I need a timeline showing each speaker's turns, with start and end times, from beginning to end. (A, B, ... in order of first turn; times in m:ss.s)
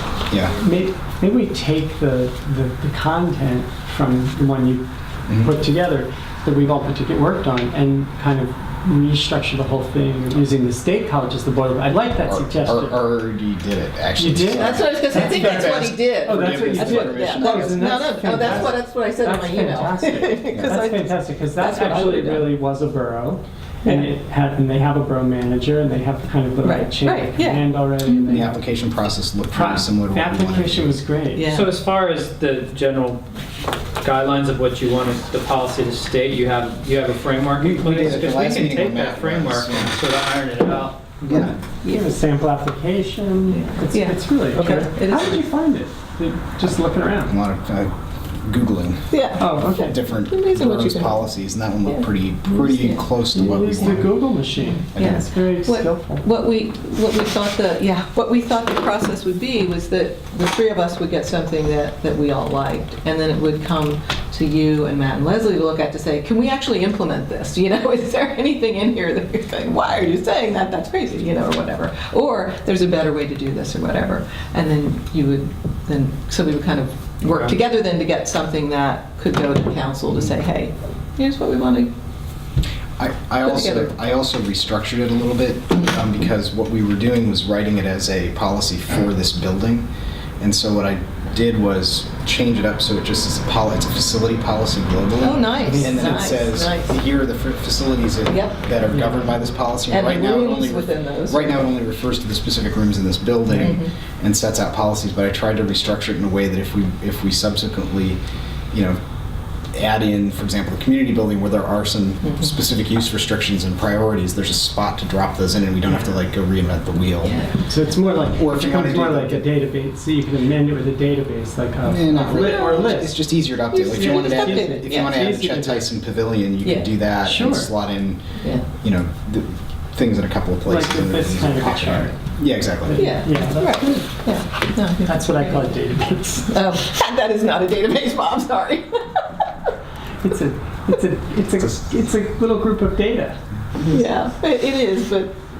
0:00.3-0:00.6 A
0:00.6-0:13.1 B
0:12.2-0:18.6 A
0:14.2-0:28.6 B
0:14.5-0:22.5 C
0:26.6-0:28.2 C
0:28.3-0:31.0 A
0:29.5-0:31.5 B
0:31.3-0:31.7 C
0:31.5-0:33.2 D
0:34.0-0:41.5 D
0:37.6-0:40.0 A
0:41.3-0:41.5 A
0:41.8-0:47.4 B
0:43.5-0:45.4 C
0:47.3-0:54.1 A
0:49.1-0:51.2 C
0:49.4-0:49.9 B
0:51.8-0:53.0 C
0:53.3-0:56.2 B
0:54.6-1:21.9 C
0:54.9-0:55.2 A
1:17.2-1:17.5 D
1:23.0-1:29.9 A
1:23.4-1:23.9 C
1:30.4-1:48.2 A
1:35.2-1:36.9 C
1:35.6-1:36.3 B
1:38.3-1:38.6 C
1:38.9-1:39.3 B
1:39.9-1:41.7 C
1:43.6-1:43.9 C
1:48.7-1:49.0 A
1:49.7-1:57.4 A
1:52.2-1:52.5 C
1:57.2-1:57.6 C
1:57.7-2:03.2 B
1:58.3-1:59.5 A
2:01.8-2:08.2 A
2:02.2-2:02.9 C
2:03.7-2:05.2 C
2:03.9-2:05.9 B
2:06.6-2:06.9 C
2:07.2-2:07.7 B
2:08.4-2:08.6 C
2:08.8-2:13.1 A
2:10.6-2:12.2 B
2:12.8-2:14.1 B
2:12.9-2:15.8 C
2:15.0-2:16.6 B
2:16.5-2:19.2 C
2:20.2-2:23.4 B
2:23.9-2:25.3 C